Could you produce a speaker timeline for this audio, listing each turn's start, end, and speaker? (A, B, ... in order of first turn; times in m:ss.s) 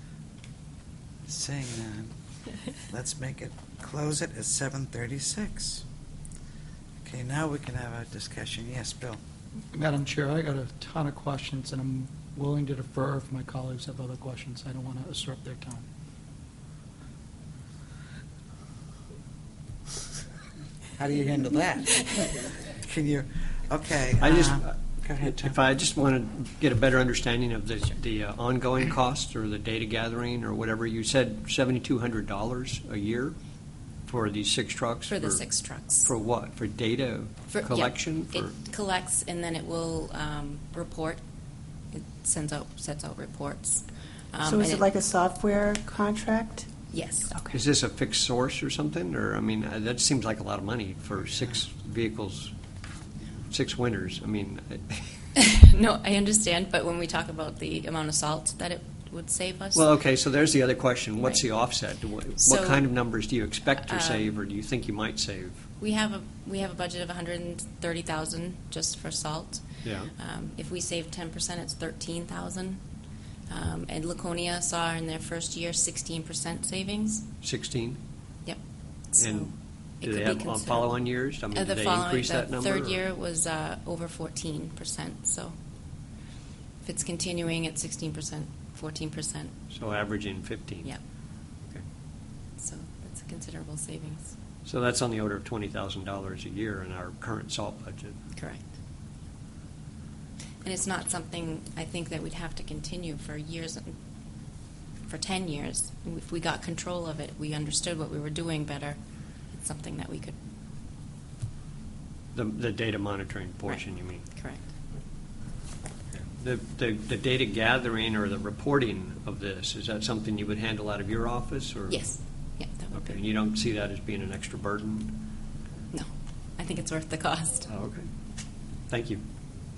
0:01.2-0:02.1 A
0:02.8-0:05.8 A
0:07.0-0:09.2 A
0:09.7-0:15.8 B
0:21.0-0:25.6 A
0:24.2-0:24.7 C
0:25.2-0:33.4 C
0:34.0-0:35.4 C
0:35.1-0:36.1 D
0:36.0-0:38.5 C
0:37.5-0:41.2 D
0:41.9-0:44.8 D
0:44.4-0:46.6 E
0:46.9-0:47.3 D
0:47.5-0:52.5 C
0:53.5-0:55.1 C
0:55.4-0:59.8 D
0:59.7-1:05.6 C
1:02.4-1:02.9 D
1:03.8-1:04.3 D
1:05.8-1:12.8 D
1:09.8-1:10.1 C
1:13.5-1:17.3 D
1:17.4-1:18.0 C
1:19.1-1:25.5 D
1:19.2-1:23.0 C
1:26.8-1:29.5 D
1:29.7-1:30.9 C
1:32.6-1:34.3 D
1:34.6-1:38.2 C
1:38.4-1:38.7 D
1:40.6-1:43.9 D
1:45.1-1:49.0 D
1:49.5-1:50.4 D
1:52.3-1:54.2 C
1:53.7-1:54.6 D
1:56.3-2:02.0 C
2:01.9-2:03.2 D
2:02.9-2:05.3 C
2:05.9-2:07.7 D
2:07.7-2:08.1 C
2:08.9-2:09.2 C